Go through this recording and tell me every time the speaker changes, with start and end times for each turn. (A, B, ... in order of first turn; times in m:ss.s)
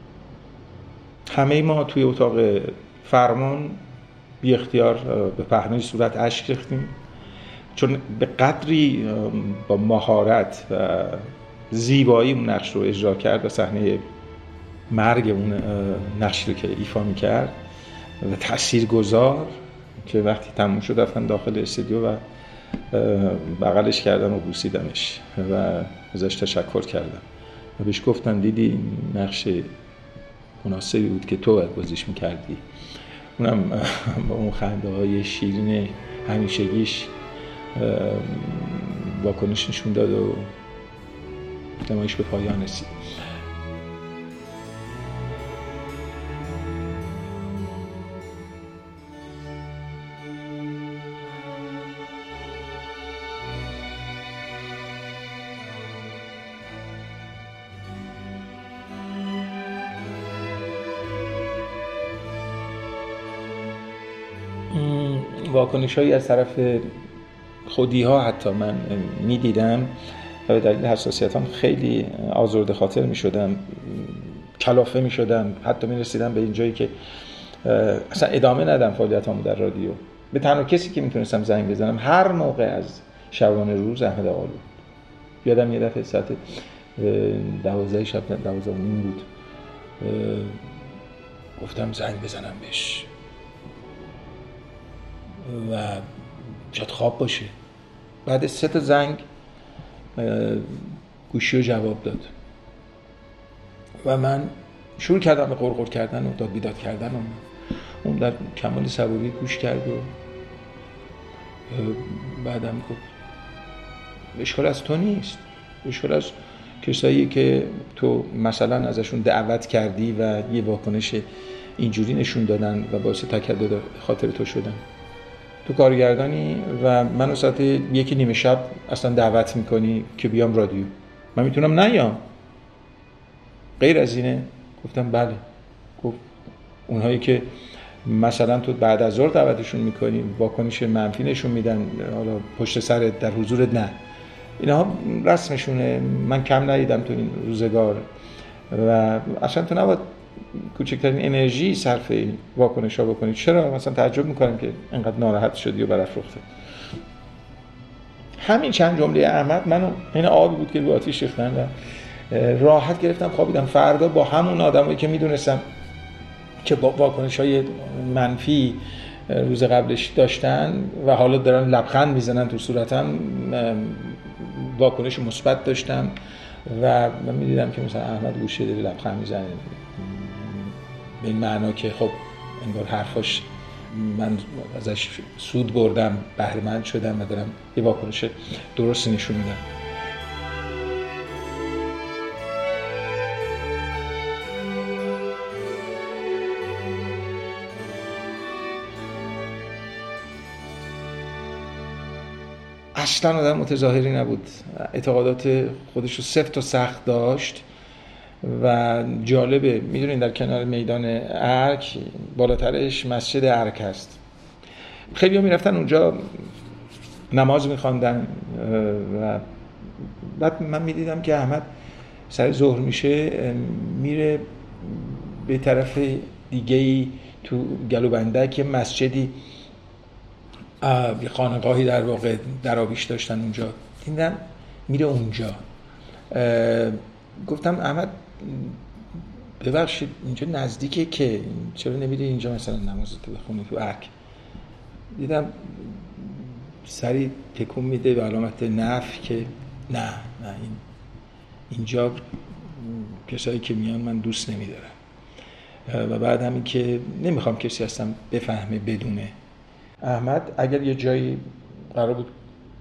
0:01.3-0:03.8 A
0:04.4-0:07.0 A
0:07.8-0:14.0 A
0:14.9-0:17.6 A
0:18.2-0:22.2 A
0:22.9-0:27.2 A
0:27.8-0:29.7 A
0:30.6-0:32.6 A
0:33.4-0:37.1 A
0:37.8-0:40.5 A
0:41.8-0:42.9 A
1:04.7-1:06.9 A
1:07.7-1:10.0 A
1:10.5-1:16.9 A
1:17.6-1:24.6 A
1:25.4-1:26.4 A
1:27.0-1:29.3 A
1:30.0-1:30.6 A
1:31.6-1:33.1 A
1:35.4-1:36.1 A
1:36.7-1:37.5 A
1:38.3-1:39.2 A
1:40.2-1:42.3 A
1:44.0-1:47.4 A
1:48.0-1:50.1 A
1:51.7-1:53.0 A
1:54.4-2:01.2 A
2:01.8-2:04.8 A
2:05.6-2:12.2 A
2:13.8-2:15.4 A
2:16.9-2:17.5 A
2:18.1-2:24.0 A
2:24.6-2:28.1 A
2:28.7-2:30.1 A
2:30.7-2:36.5 A
2:38.4-2:41.7 A
2:42.3-2:45.6 A
2:46.6-3:09.6 A
3:23.0-3:27.6 A
3:28.4-3:34.2 A
3:35.1-3:36.4 A
3:37.3-3:39.4 A
3:40.4-3:41.7 A
3:42.3-3:49.4 A
3:50.8-3:55.6 A
3:56.3-3:58.8 A
3:59.6-4:04.1 A
4:05.1-4:10.8 A
4:11.7-4:14.9 A
4:15.9-4:19.4 A
4:20.0-4:22.3 A